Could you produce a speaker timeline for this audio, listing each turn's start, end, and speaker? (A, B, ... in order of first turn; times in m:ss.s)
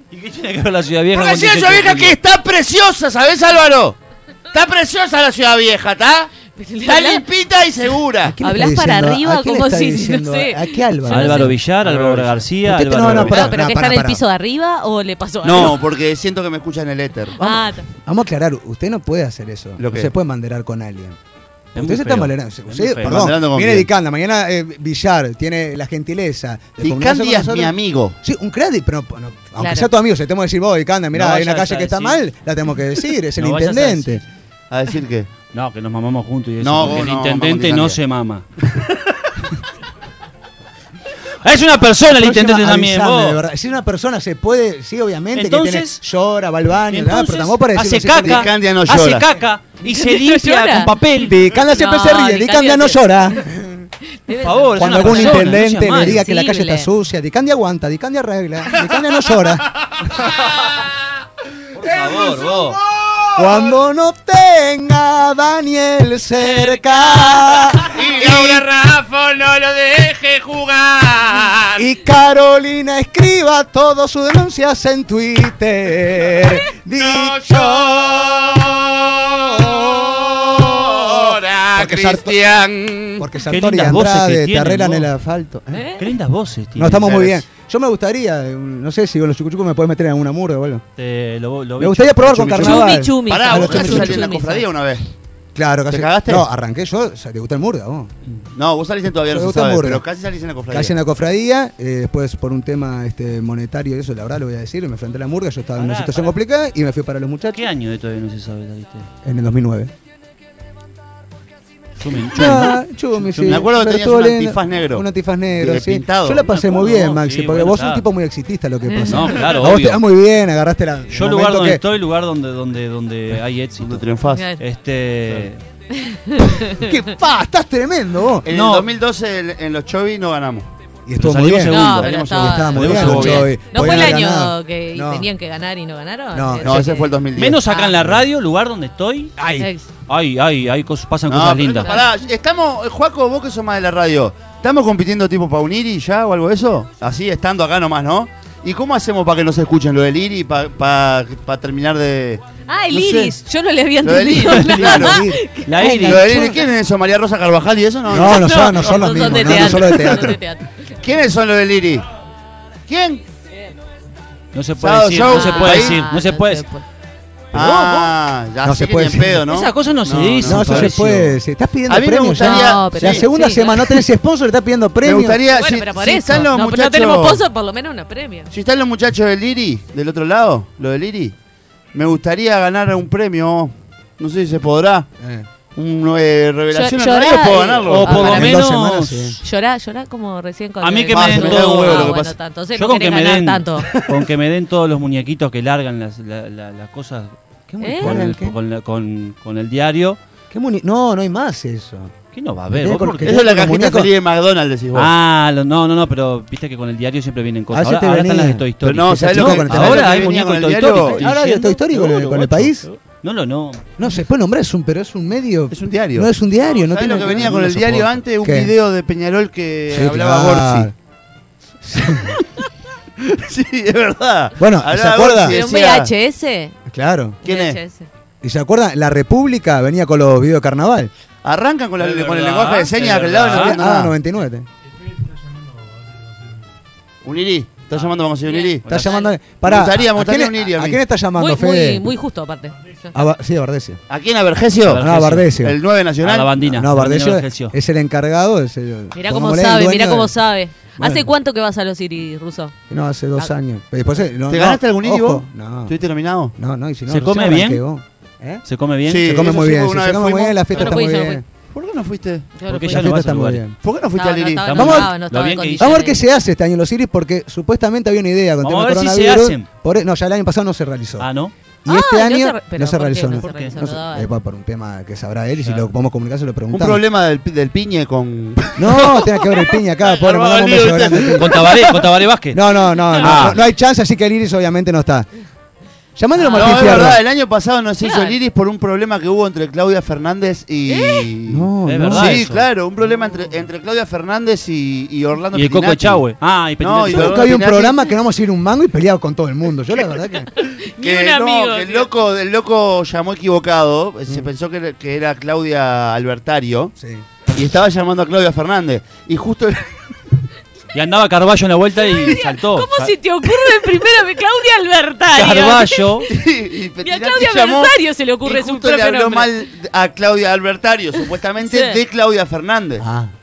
0:00.1-0:02.2 A
0:01.1-0:04.0 B
0:04.5-0:06.3 B
0:06.5-0:07.2 C
0:06.8-0:08.4 B
0:08.2-0:14.2 D
0:08.4-0:11.5 C
0:11.0-0:13.5 A
0:11.8-0:12.3 B
0:13.0-0:13.4 B
0:13.3-0:15.8 C
0:15.4-0:17.7 B
0:17.4-0:17.8 C
0:18.0-0:21.2 D
0:19.8-0:20.1 B
0:21.7-0:23.3 A
0:21.7-0:34.2 D
0:23.0-0:23.9 B
0:26.8-0:28.2 B
0:29.6-0:29.9 C
0:31.1-0:32.2 A
0:33.2-0:34.2 A
0:34.7-0:35.3 B
0:35.5-0:38.4 A
0:36.6-0:38.0 B
0:41.4-0:43.4 A
0:42.0-0:48.5 D
0:45.3-0:46.0 A
0:46.9-0:51.4 A
0:48.2-0:49.2 B
0:49.8-0:50.9 C
0:51.0-0:53.9 D
0:51.5-0:53.5 C
0:54.1-0:56.9 C
0:54.4-0:56.2 A
0:54.8-0:59.7 D
0:58.7-1:00.6 B
1:01.7-1:02.8 A
1:02.0-1:03.7 B
1:03.4-1:08.6 D
1:06.4-1:07.9 A
1:07.9-1:11.9 B
1:11.8-1:18.3 D
1:16.4-1:23.3 B
1:20.9-1:22.4 D
1:23.2-1:25.9 D
1:23.4-1:25.1 A
1:25.7-1:26.1 C
1:26.0-1:27.3 A
1:26.7-1:30.8 D
1:31.0-1:32.8 A
1:31.8-1:34.3 D
1:32.3-1:35.1 B
1:32.6-1:34.7 C
1:35.5-1:38.1 D
1:35.9-1:36.5 B
1:38.5-1:41.0 B
1:39.3-1:40.0 D
1:40.7-1:47.6 D
1:45.7-1:46.4 A
1:47.5-1:49.1 A
1:49.2-1:49.9 D
1:52.0-1:53.7 A
1:52.3-2:01.8 D
1:53.4-1:56.4 B
1:56.4-1:58.0 A
1:58.9-1:59.4 C
1:59.0-2:00.0 A
2:01.1-2:04.0 A
2:03.8-2:04.4 B
2:04.3-2:04.6 C
2:04.6-2:05.6 A
2:05.9-2:06.9 C
2:06.6-2:08.5 D
2:08.4-2:10.7 B
2:08.5-2:08.9 A
2:11.0-2:15.3 D
2:11.2-2:13.5 A
2:11.7-2:18.1 C
2:11.9-2:14.0 B
2:16.3-2:16.9 D
2:16.6-2:17.6 B
2:17.3-2:19.4 A
2:19.4-2:19.7 D
2:19.6-2:19.9 C
2:20.1-2:22.0 A
2:21.3-2:33.4 B
2:21.8-2:22.1 C
2:32.6-2:36.6 C
2:34.0-2:35.2 B
2:34.5-2:36.6 D
2:35.6-2:36.4 A
2:35.9-2:40.0 B
2:38.0-2:40.4 D
2:38.2-2:40.7 C
2:41.0-2:42.0 B
2:42.9-2:43.2 B
2:44.5-2:46.7 A
2:44.8-2:46.0 B
2:45.2-2:46.8 C
2:47.5-2:48.1 A
2:47.5-2:50.9 B
2:48.6-2:49.4 D
2:49.5-2:51.4 A
2:50.4-2:55.4 D
2:51.9-2:53.2 B
2:52.4-2:54.0 C
2:55.0-2:57.4 B
2:55.4-2:58.5 C
2:58.5-3:01.3 B
3:01.9-3:05.1 B
3:05.2-3:05.5 D
3:05.7-3:08.5 B
3:06.7-3:08.6 C
3:07.8-3:09.4 A
3:08.1-3:09.4 D
3:09.4-3:13.9 C
3:10.8-3:17.3 A
3:11.1-3:12.3 B
3:17.7-3:18.6 D
3:17.8-3:18.2 C
3:18.0-3:20.2 A
3:20.5-3:22.1 D
3:22.3-3:23.4 A
3:22.7-3:24.1 D
3:23.2-3:25.1 B
3:24.9-3:33.8 A
3:27.7-3:30.4 D
3:28.8-3:31.2 B
3:31.0-3:32.8 D
3:34.0-3:38.7 D
3:35.7-3:40.9 B
3:39.9-3:40.9 D
3:41.8-3:42.4 D
3:43.2-3:46.1 B
3:44.6-3:45.6 D
3:45.4-3:46.8 C
3:46.9-3:47.4 D
3:47.4-3:47.8 B
3:47.4-3:48.1 C
3:48.4-3:51.1 D
3:51.4-3:54.2 B
3:52.0-3:53.8 A
3:53.5-3:54.6 D
3:57.2-4:01.0 B
3:58.4-3:59.4 C
3:58.8-4:02.0 D
4:01.4-4:03.1 C
4:03.1-4:04.0 D
4:04.1-4:05.0 B
4:04.8-4:05.5 A
4:05.0-4:05.8 D
4:05.6-4:06.6 B
4:06.2-4:07.7 A
4:06.6-4:10.3 D
4:09.1-4:12.7 C
4:11.0-4:11.3 D
4:12.9-4:16.0 D
4:14.5-4:16.5 B
4:16.6-4:18.6 D
4:17.1-4:17.8 A
4:18.6-4:19.3 A
4:19.0-4:21.0 B
4:19.2-4:21.4 D
4:20.8-4:21.4 C
4:21.7-4:22.5 B
4:22.6-4:23.1 C
4:22.7-4:23.6 A
4:22.8-4:23.8 D
4:23.8-4:24.9 B
4:24.2-4:26.2 C
4:24.6-4:25.9 A
4:24.7-4:25.1 D
4:25.8-4:31.3 D
4:28.6-4:29.6 A
4:31.2-4:31.5 A
4:31.8-4:37.0 D
4:31.9-4:34.3 C
4:33.3-4:33.8 A
4:35.6-4:35.9 A
4:36.7-4:42.1 B
4:38.8-4:41.7 D
4:41.3-4:43.6 A
4:42.5-4:45.3 D
4:43.2-4:43.6 B
4:46.2-4:47.2 D
4:46.3-4:47.2 C
4:46.5-4:56.2 B
4:48.0-4:48.4 C
4:50.9-4:51.3 C
4:51.5-4:52.4 D
4:51.8-4:52.7 A
4:55.5-4:57.5 A
4:56.8-4:58.0 B
4:57.1-5:00.5 D
5:00.5-5:02.1 C
5:01.0-5:06.9 B
5:07.0-5:07.2 D
5:07.5-5:10.0 B
5:10.9-5:13.1 A
5:12.2-5:16.2 C
5:15.3-5:16.3 A
5:16.3-5:23.0 B
5:17.0-5:19.5 C
5:21.6-5:22.0 C
5:23.0-5:23.3 D